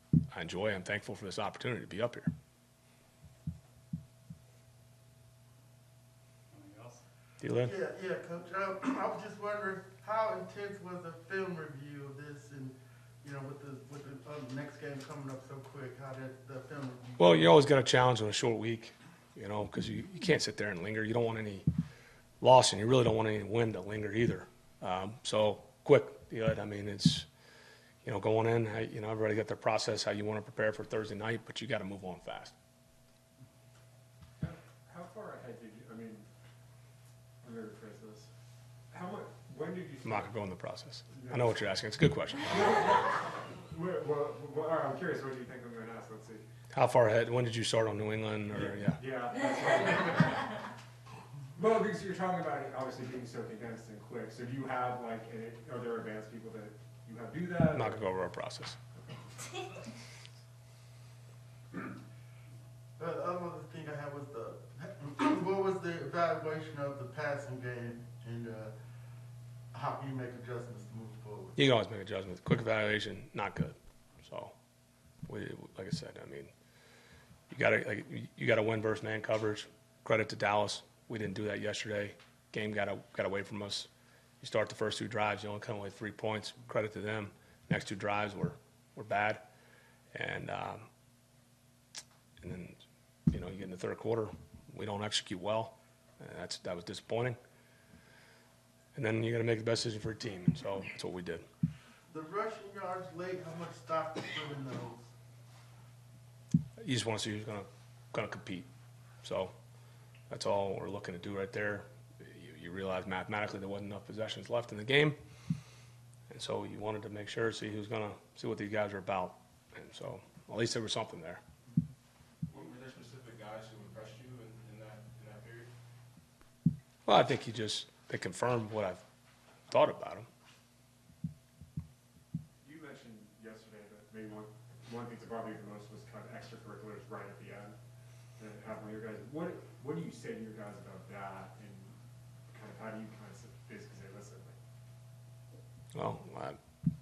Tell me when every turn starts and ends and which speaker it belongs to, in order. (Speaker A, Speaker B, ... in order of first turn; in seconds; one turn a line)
Speaker A: 0.3-2.3
Speaker B: 6.6-7.0
Speaker A: 7.4-7.7
Speaker C: 7.6-17.4
Speaker A: 17.2-21.6
Speaker A: 22.4-27.3
Speaker A: 28.0-32.5
Speaker D: 34.9-36.2
Speaker D: 37.4-38.3
Speaker D: 38.9-40.0
Speaker A: 40.0-42.6
Speaker D: 42.5-42.8
Speaker D: 43.7-46.4
Speaker A: 46.7-49.0
Speaker D: 49.0-50.3
Speaker D: 51.6-57.8
Speaker A: 57.7-58.8
Speaker C: 63.0-68.7
Speaker C: 69.7-71.5
Speaker A: 71.6-74.5
Speaker A: 75.2-76.5
Speaker A: 77.5-83.9
Speaker A: 84.4-89.4
Speaker A: 90.1-90.8
Speaker A: 92.4-92.8
Speaker A: 93.3-97.4
Speaker A: 98.9-101.4
Speaker C: 102.1-105.1
Speaker A: 106.8-108.7
Speaker A: 109.2-109.5
Speaker A: 110.3-115.2
Speaker A: 116.3-121.4
Speaker B: 122.5-125.7
Speaker A: 127.0-129.0
Speaker A: 129.7-130.3
Speaker D: 132.7-137.7
Speaker D: 138.4-141.9
Speaker D: 142.5-144.5
Speaker A: 145.9-146.6